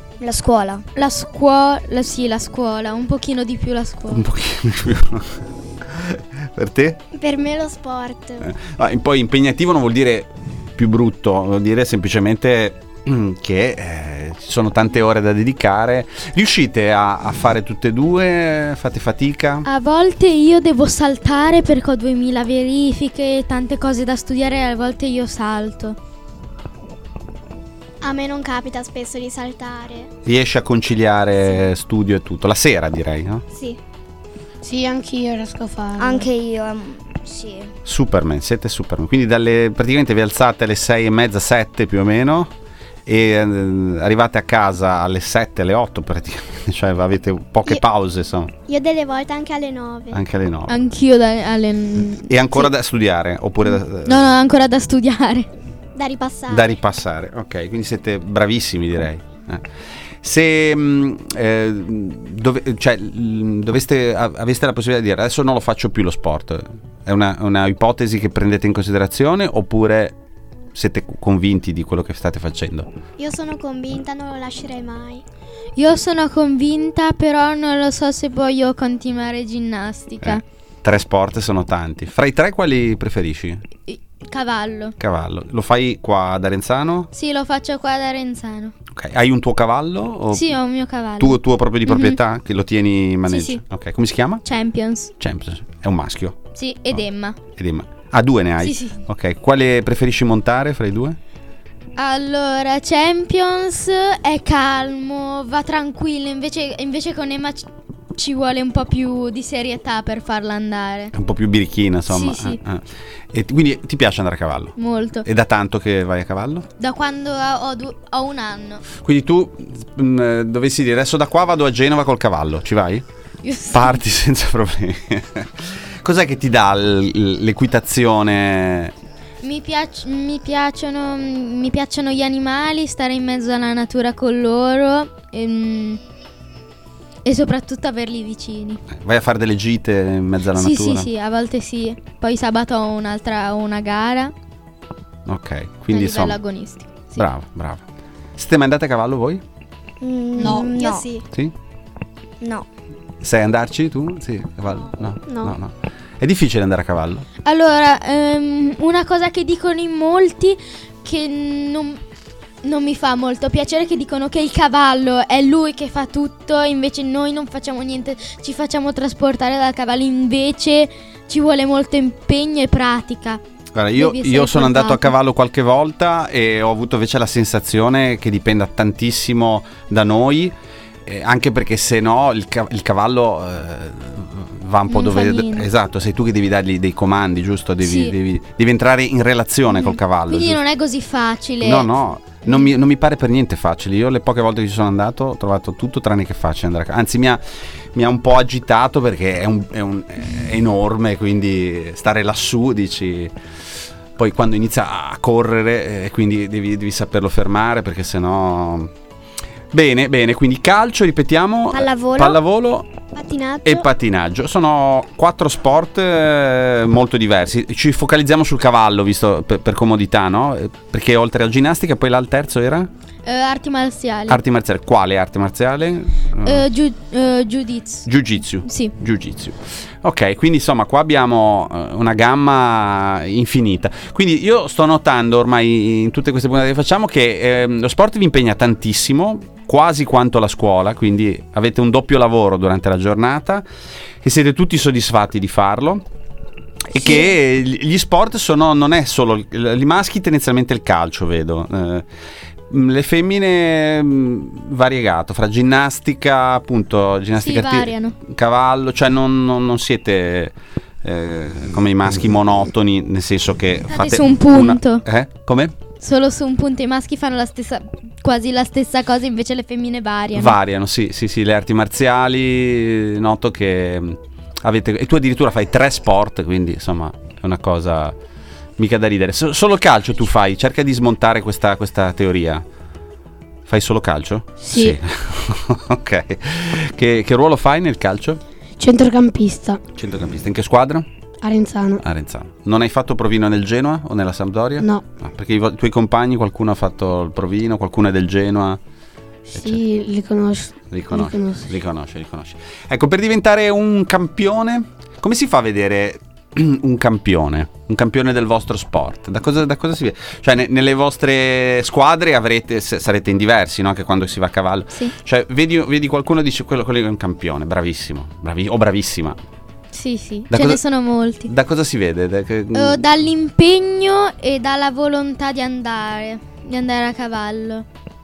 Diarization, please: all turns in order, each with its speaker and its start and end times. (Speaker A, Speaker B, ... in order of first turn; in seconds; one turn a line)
Speaker A: 0.2-0.8
Speaker B: 0.9-4.2
Speaker C: 4.1-7.0
Speaker D: 7.1-8.5
Speaker C: 8.4-19.6
Speaker B: 19.6-26.0
Speaker D: 28.0-30.1
Speaker C: 30.2-33.4
Speaker D: 33.5-33.8
Speaker E: 34.6-36.3
Speaker A: 36.0-37.7
Speaker C: 37.8-42.5
Speaker C: 43.0-48.5
Speaker D: 48.7-50.2
Speaker C: 50.1-50.8
Speaker B: 50.7-52.7
Speaker C: 52.3-54.2
Speaker B: 54.0-55.5
Speaker D: 55.9-56.8
Speaker C: 56.5-59.7
Speaker C: 60.2-70.2
Speaker C: 70.7-72.9
Speaker D: 73.2-75.2
Speaker B: 75.8-80.4
Speaker C: 80.2-83.6
Speaker B: 83.9-85.0
Speaker C: 85.0-87.1
Speaker B: 87.1-88.7
Speaker C: 88.9-90.5
Speaker B: 90.3-92.2
Speaker C: 91.2-94.4
Speaker B: 93.2-93.6
Speaker B: 94.4-95.1
Speaker C: 95.2-96.4
Speaker B: 96.5-97.4
Speaker C: 96.9-101.2
Speaker B: 98.6-99.0
Speaker B: 102.0-111.1
Speaker C: 111.1-116.7
Speaker B: 112.1-112.6
Speaker B: 114.8-115.2
Speaker B: 116.8-118.8
Speaker C: 118.9-123.0
Speaker B: 123.4-124.0
Speaker C: 123.7-128.9
Speaker B: 129.4-136.0
Speaker B: 137.2-138.8
Speaker C: 138.9-141.1
Speaker B: 140.5-144.3
Speaker C: 145.2-146.4
Speaker B: 145.9-147.3
Speaker C: 147.2-147.8
Speaker C: 148.3-149.4
Speaker A: 150.0-151.1
Speaker E: 150.4-150.7
Speaker D: 150.4-151.2
Speaker C: 153.2-157.2
Speaker D: 155.3-155.6
Speaker B: 157.4-162.0
Speaker B: 162.6-173.4
Speaker C: 173.7-190.6
Speaker B: 173.9-175.1
Speaker B: 184.9-185.7
Speaker B: 187.8-188.1
Speaker B: 189.7-191.9
Speaker C: 191.6-203.3
Speaker C: 204.2-208.9
Speaker C: 209.7-212.9
Speaker A: 211.7-212.4
Speaker D: 213.1-213.9
Speaker C: 213.6-222.9
Speaker B: 223.2-224.4
Speaker C: 224.3-226.7
Speaker B: 226.4-228.1
Speaker C: 228.1-243.6
Speaker B: 228.6-228.9
Speaker C: 244.2-246.0
Speaker C: 246.9-252.1
Speaker C: 252.7-265.7
Speaker B: 257.4-258.2
Speaker B: 263.9-265.0
Speaker B: 266.0-270.6
Speaker C: 270.3-278.1
Speaker C: 278.8-282.6
Speaker C: 283.6-288.4
Speaker E: 284.6-285.0
Speaker E: 288.8-289.8
Speaker C: 289.9-291.1
Speaker E: 291.4-292.0
Speaker C: 292.0-298.8
Speaker E: 299.5-301.7
Speaker C: 300.9-319.4
Speaker B: 319.9-321.5
Speaker C: 320.5-320.8
Speaker C: 321.5-323.1
Speaker B: 322.7-327.9